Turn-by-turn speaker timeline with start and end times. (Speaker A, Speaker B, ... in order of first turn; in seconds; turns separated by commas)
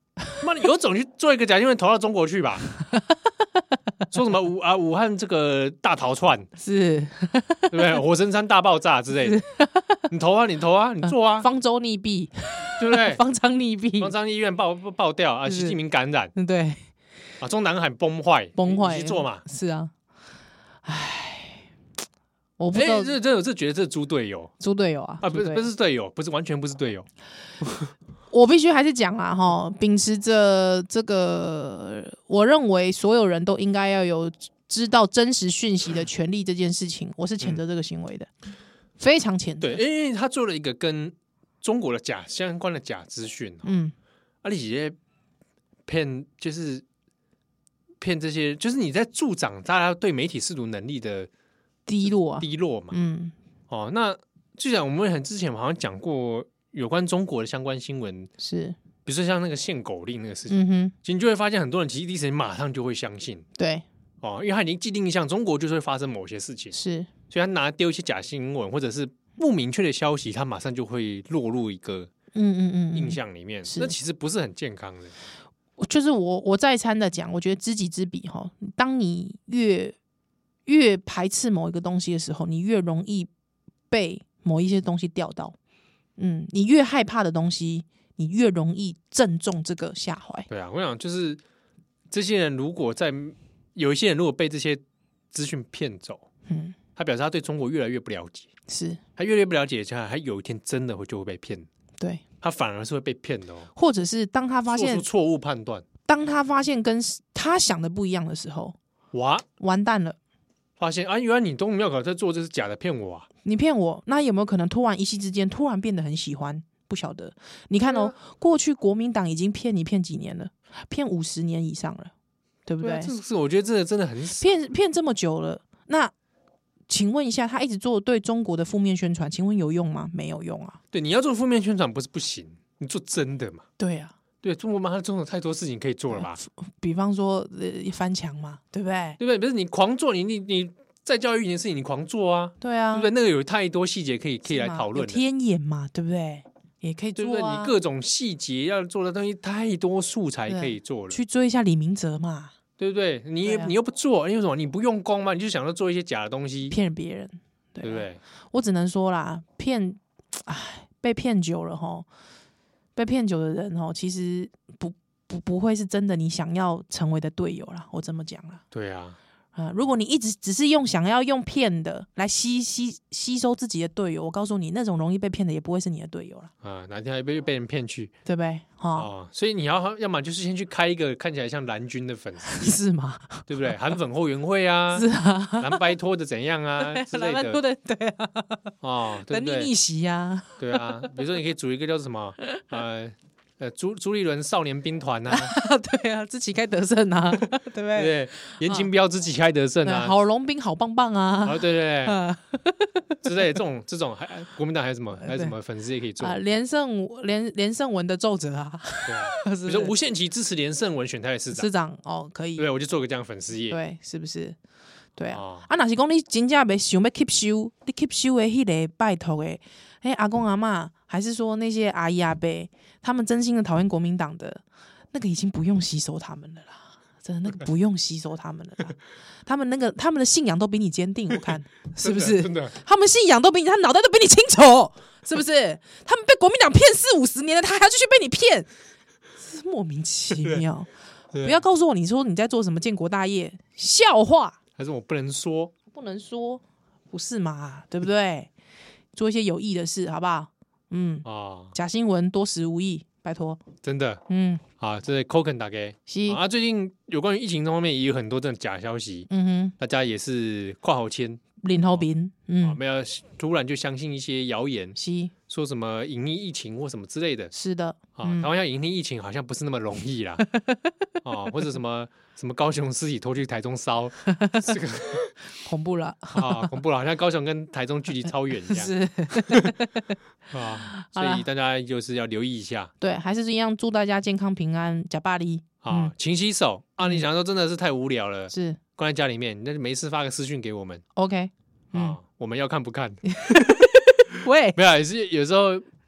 Speaker A: 0.4-2.7, Speaker A: 4.1-6.5, Speaker B: 6.6-8.0, Speaker A: 7.7-9.4, Speaker B: 9.2-10.1, Speaker A: 10.1-11.5, Speaker B: 11.0-14.1, Speaker A: 12.8-13.2, Speaker A: 14.0-16.3, Speaker B: 15.4-15.8, Speaker B: 16.3-16.8, Speaker A: 17.4-19.4, Speaker B: 18.6-19.9, Speaker B: 20.8-21.6, Speaker B: 22.6-23.1, Speaker A: 22.7-24.5, Speaker B: 24.6-25.7, Speaker A: 25.2-27.1, Speaker B: 28.3-38.3, Speaker B: 39.0-39.8, Speaker A: 39.6-43.7, Speaker B: 43.6-43.9, Speaker A: 44.4-45.0, Speaker A: 45.9-46.8, Speaker A: 48.0-51.3, Speaker B: 51.9-53.3, Speaker A: 52.0-52.9, Speaker A: 53.7-58.3, Speaker B: 58.4-58.8, Speaker A: 59.0-63.4, Speaker B: 60.5-60.9, Speaker B: 63.6-63.9, Speaker A: 64.2-66.8, Speaker B: 66.7-67.1, Speaker A: 67.3-72.1, Speaker B: 72.3-74.0, Speaker A: 72.9-75.1, Speaker B: 75.8-80.0, Speaker B: 80.7-83.3, Speaker B: 83.9-85.5, Speaker B: 86.2-90.5, Speaker A: 90.5-91.4, Speaker A: 92.1-96.2, Speaker B: 96.5-96.8, Speaker A: 97.0-98.5, Speaker B: 98.7-99.0, Speaker A: 99.2-101.7, Speaker A: 102.4-103.7, Speaker B: 103.7-105.0, Speaker A: 104.7-105.8, Speaker B: 106.1-108.8, Speaker A: 109.1-109.5, Speaker B: 109.6-110.2, Speaker A: 110.8-113.3, Speaker B: 113.4-122.1, Speaker A: 117.9-118.1, Speaker B: 122.7-123.1, Speaker A: 122.8-124.6, Speaker B: 124.4-126.1, Speaker B: 126.9-130.8, Speaker A: 130.9-133.6, Speaker B: 133.8-134.1, Speaker A: 134.4-136.4, Speaker B: 136.1-139.2, Speaker A: 139.2-145.2, Speaker B: 142.6-143.1, Speaker B: 144.4-147.7, Speaker A: 147.2-151.2, Speaker B: 150.5-152.5, Speaker A: 152.8-156.8, Speaker B: 153.4-153.7, Speaker B: 156.7-162.1, Speaker A: 157.8-158.2, Speaker B: 162.9-168.6, Speaker A: 168.7-169.2, Speaker B: 169.6-176.5, Speaker A: 176.6-178.1, Speaker B: 178.2-179.1, Speaker A: 178.9-182.8, Speaker B: 182.4-183.7, Speaker A: 183.5-187.6, Speaker B: 184.9-185.8, Speaker B: 186.8-191.1, Speaker A: 188.8-189.7, Speaker A: 190.6-195.5, Speaker B: 192.4-192.7, Speaker B: 195.3-198.9, Speaker A: 197.9-200.1, Speaker B: 199.8-203.2, Speaker A: 201.4-202.2, Speaker A: 203.2-206.4, Speaker B: 205.2-205.5, Speaker B: 206.2-209.9, Speaker A: 209.1-211.7, Speaker B: 211.5-212.6, Speaker A: 212.6-213.8, Speaker B: 213.7-214.6, Speaker B: 215.2-238.7, Speaker A: 215.3-215.7, Speaker A: 232.0-232.8, Speaker B: 239.4-244.6, Speaker A: 240.3-240.6, Speaker A: 241.3-241.6, Speaker A: 244.8-245.7, Speaker B: 245.9-248.5, Speaker B: 249.1-253.6, Speaker A: 251.2-251.7, Speaker A: 253.8-254.2, Speaker B: 254.3-254.6, Speaker A: 254.8-262.0, Speaker B: 256.1-256.4, Speaker B: 259.3-259.7, Speaker B: 261.6-262.8, Speaker A: 262.6-267.5, Speaker B: 265.0-265.3, Speaker B: 267.5-268.5, Speaker A: 268.2-270.4, Speaker B: 270.4-271.0, Speaker A: 271.2-275.3, Speaker B: 274.2-274.8, Speaker B: 275.6-276.7, Speaker A: 276.3-279.7, Speaker B: 278.7-280.1, Speaker A: 280.5-282.9, Speaker B: 280.9-281.4, Speaker B: 283.0-286.1, Speaker A: 285.8-291.0, Speaker B: 288.5-288.8, Speaker B: 291.1-292.2, Speaker A: 291.9-293.9, Speaker B: 293.3-294.8, Speaker A: 294.7-295.9